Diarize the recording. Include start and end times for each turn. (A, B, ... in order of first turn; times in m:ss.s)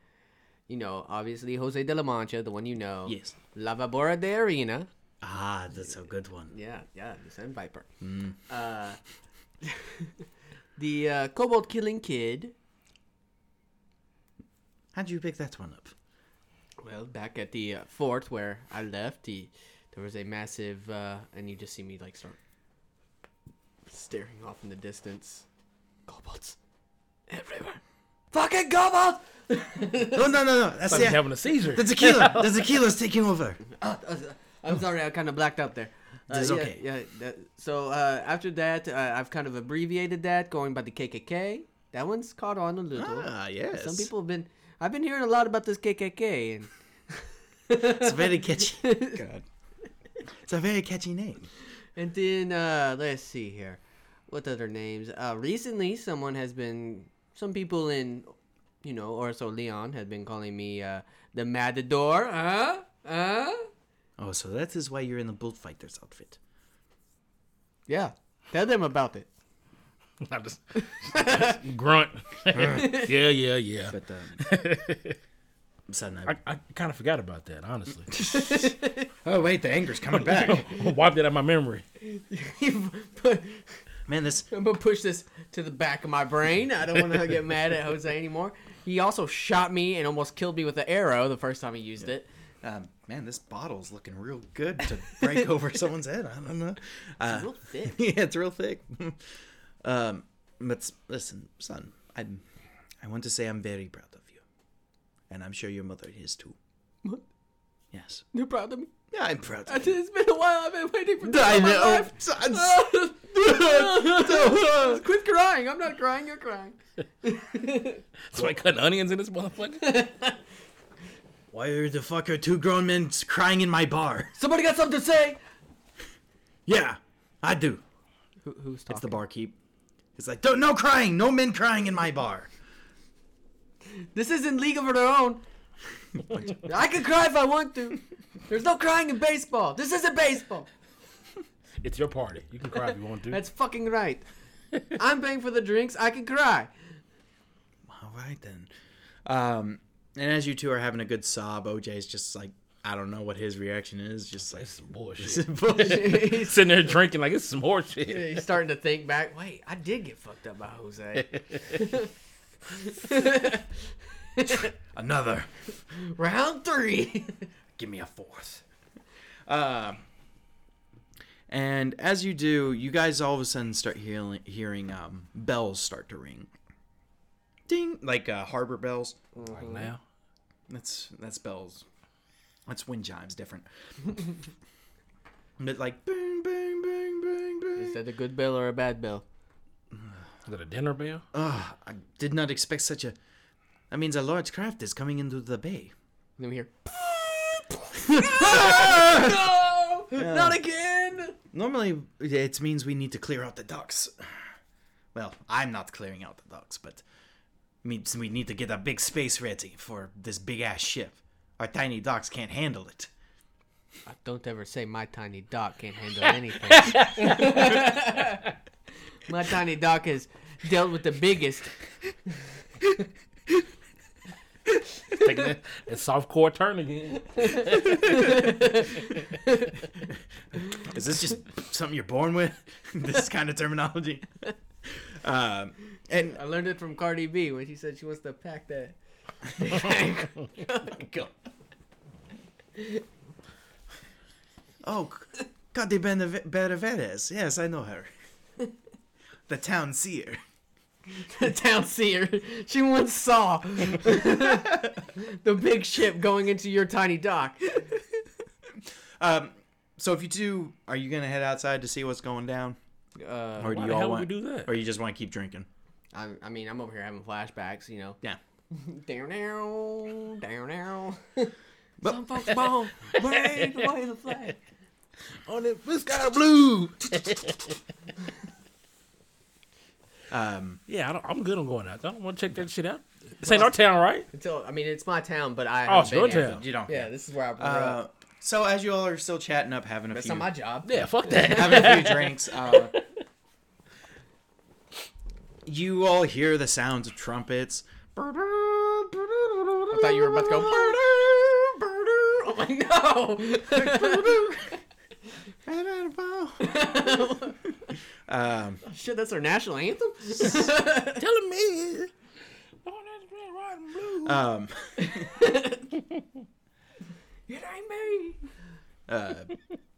0:00.7-0:04.9 A
0:03.0-0:03.4 B
0:05.2-0:06.5 B
0:06.5-0:07.9 A
0:08.0-0:08.4 B
0:08.5-0:09.0 A
0:09.6-0:10.2 A
0:10.8-0:12.5 A
0:14.9-0:15.9 B
0:16.8-0:22.4 A
0:23.9-0:25.4 A
0:26.1-0:26.6 A
0:27.3-0:27.8 A
0:28.3-0:30.3 A
0:30.1-0:33.6 B
0:30.9-0:32.6 C
0:33.6-0:49.2 A
0:36.3-0:36.8 B
0:43.0-0:44.1 B
0:47.8-0:49.4 B
0:50.3-0:51.5 B
0:52.0-0:58.3 A
0:58.8-1:03.7 A
1:04.2-1:06.4 B
1:07.9-1:09.3 A
1:10.2-1:15.2 C
1:10.8-1:11.6 A
1:12.6-1:12.9 B
1:12.6-1:13.1 A
1:13.9-1:14.4 B
1:15.9-1:16.4 B
1:16.2-1:18.2 C
1:18.1-1:19.1 A
1:19.2-1:20.7 B
1:20.2-1:21.8 C
1:22.0-1:23.6 A
1:24.1-1:24.5 B
1:24.5-1:32.3 A
1:32.6-1:39.2 B
1:37.3-1:38.0 A
1:39.8-1:42.4 B
1:43.0-1:44.4 B
1:45.3-1:46.6 B
1:47.9-1:48.2 B
1:48.3-1:48.9 A
1:49.1-1:50.0 B
1:49.7-1:58.0 A
1:51.2-1:55.0 B
1:58.3-1:59.9 C
1:59.8-2:00.4 A
2:01.5-2:04.3 B
2:04.4-2:05.4 A
2:06.6-2:07.8 B
2:08.4-2:09.2 A
2:08.9-2:09.6 B
2:10.2-2:12.5 B
2:14.0-2:15.4 A
2:16.4-2:20.7 A
2:21.8-2:23.4 C
2:23.3-2:24.2 A
2:24.9-2:26.7 A
2:27.9-2:28.7 B
2:29.2-2:34.7 B
2:34.5-2:38.4 C
2:35.2-2:36.4 B
2:35.7-2:36.8 A
2:38.1-2:42.1 A
2:41.3-2:41.8 C
2:42.7-2:43.8 A
2:44.3-2:44.7 A
2:44.8-2:45.5 B
2:45.9-2:47.5 A
2:47.8-2:48.6 B
2:49.5-2:50.0 B
2:51.5-2:56.5 B
2:57.7-2:59.2 B
2:59.4-2:59.9 A
2:59.4-3:00.0 C
3:00.7-3:01.9 B
3:02.7-3:04.2 B
3:05.6-3:08.0 B
3:07.8-3:09.2 A
3:09.9-3:10.2 B
3:10.4-3:11.2 C
3:11.3-3:13.2 B
3:13.9-3:15.9 B
3:16.4-3:21.4 A
3:18.0-3:19.5 B
3:20.1-3:20.6 B
3:21.5-3:24.4 B
3:25.1-3:27.0 B
3:27.8-3:33.1 B
3:34.1-3:38.5 A
3:36.7-3:37.9 C
3:39.2-3:41.7 A
3:45.1-3:49.2 C
3:47.4-3:49.7 A
3:50.6-3:54.3 B
3:54.8-3:56.4 B
3:56.2-4:01.0 A
4:00.9-4:01.3 B
4:02.7-4:03.0 A
4:04.8-4:08.1 B
4:09.5-4:10.4 B
4:11.2-4:18.0 A
4:14.4-4:14.9 B
4:19.2-4:22.8 B
4:23.2-4:23.9 A
4:23.6-4:25.7 B
4:23.6-4:24.7 C
4:26.1-4:28.2 A
4:28.7-4:34.6 A
4:32.0-4:32.5 B
4:33.2-4:33.9 C
4:35.4-4:37.8 C
4:40.3-4:40.8 B
4:40.9-4:44.3 C
4:43.4-4:43.7 A
4:44.3-4:48.0 A
4:45.9-4:46.6 C
4:46.3-4:50.5 B
4:50.1-4:52.0 A
4:50.9-4:53.0 C
4:51.3-4:52.9 B
4:55.6-5:02.1 B
4:59.9-5:01.2 A
5:02.0-5:04.7 A
5:03.7-5:04.7 B
5:05.6-5:07.4 B
5:06.6-5:07.6 A
5:07.9-5:08.8 B
5:08.8-5:11.2 A
5:11.2-5:12.1 C
5:12.8-5:14.4 C
5:14.2-5:15.3 B
5:15.0-5:15.9 A
5:17.5-5:18.4 A
5:19.1-5:19.5 B